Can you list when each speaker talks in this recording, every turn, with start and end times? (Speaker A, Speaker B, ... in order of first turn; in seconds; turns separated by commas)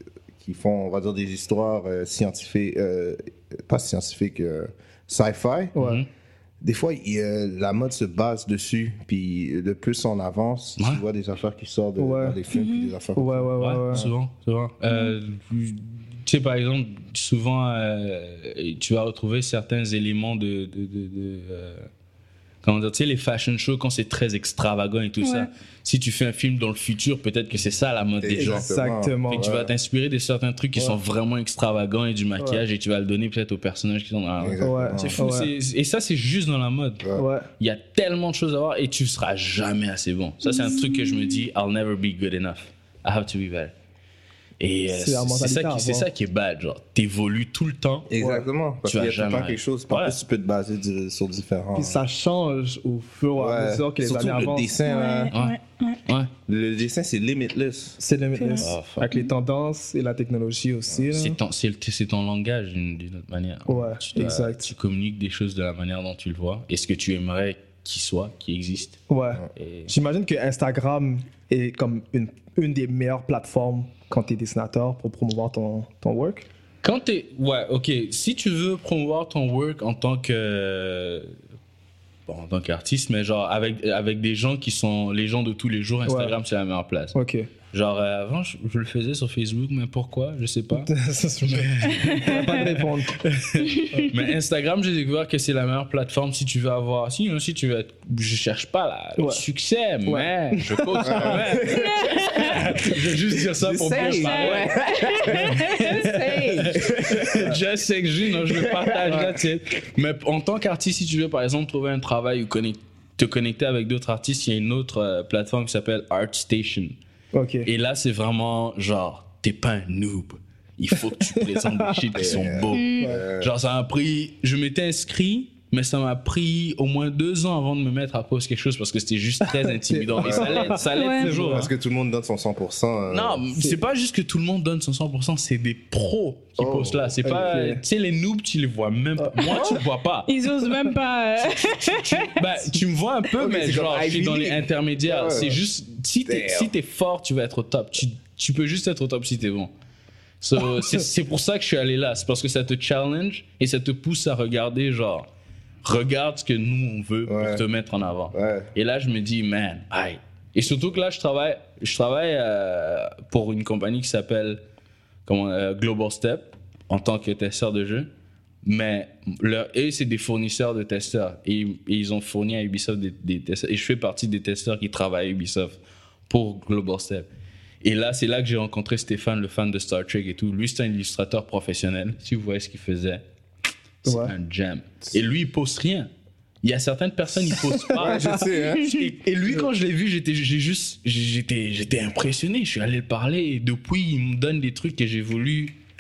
Speaker A: 0.4-5.8, Speaker B: 5.8-6.0, Speaker C: 5.8-6.1, Speaker A: 6.6-14.1, Speaker B: 12.0-12.4, Speaker D: 12.5-12.9, Speaker B: 13.2-14.1, Speaker C: 13.6-21.9, Speaker D: 14.9-15.1, Speaker C: 22.6-28.7, Speaker D: 25.2-25.5, Speaker A: 28.2-29.7, Speaker B: 28.4-29.5, Speaker C: 29.3-37.1, Speaker A: 34.4-35.4, Speaker B: 34.6-35.5, Speaker A: 37.0-37.3, Speaker B: 37.2-37.5, Speaker C: 37.6-43.7, Speaker D: 40.4-41.4, Speaker C: 44.6-48.1, Speaker B: 44.9-46.1, Speaker A: 48.1-52.0, Speaker B: 48.2-48.5, Speaker C: 48.9-50.2, Speaker B: 51.8-54.7, Speaker A: 53.4-55.3, Speaker D: 54.8-56.0, Speaker C: 55.3-56.3, Speaker A: 56.5-58.0, Speaker B: 58.0-61.4, Speaker D: 58.4-59.3, Speaker C: 58.6-59.1, Speaker C: 61.1-69.0, Speaker B: 63.7-64.7, Speaker B: 69.1-76.5, Speaker C: 69.6-69.9, Speaker C: 76.8-81.3, Speaker C: 82.3-87.2, Speaker B: 86.1-86.3, Speaker B: 87.1-87.5, Speaker C: 87.7-117.0, Speaker B: 90.8-94.1, Speaker D: 92.0-92.4, Speaker D: 93.6-94.1, Speaker B: 99.2-99.4, Speaker B: 100.1-101.6, Speaker A: 101.0-102.8, Speaker D: 101.6-102.7, Speaker A: 103.5-107.6, Speaker D: 103.9-106.7, Speaker B: 107.3-107.6, Speaker A: 108.5-109.1, Speaker B: 109.0-109.4, Speaker B: 117.3-117.7, Speaker C: 117.7-131.7, Speaker B: 121.3-122.3, Speaker A: 122.2-123.5, Speaker D: 122.7-123.1, Speaker B: 129.5-131.7, Speaker A: 130.2-130.8, Speaker D: 130.9-131.3, Speaker A: 131.4-133.4, Speaker C: 133.1-140.3, Speaker B: 133.5-133.8, Speaker A: 136.6-137.5, Speaker B: 137.2-137.8, Speaker D: 139.4-142.3, Speaker A: 139.5-139.8, Speaker C: 141.5-149.7, Speaker A: 143.3-145.6, Speaker A: 146.3-146.7, Speaker C: 150.4-155.3, Speaker C: 155.8-164.6, Speaker A: 157.3-157.6, Speaker A: 158.3-158.7, Speaker C: 165.3-168.1, Speaker C: 168.6-177.3, Speaker C: 177.8-183.2, Speaker C: 184.0-186.1, Speaker B: 184.1-184.3, Speaker C: 186.6-195.7, Speaker B: 187.5-188.5, Speaker A: 187.9-189.0, Speaker D: 188.6-189.1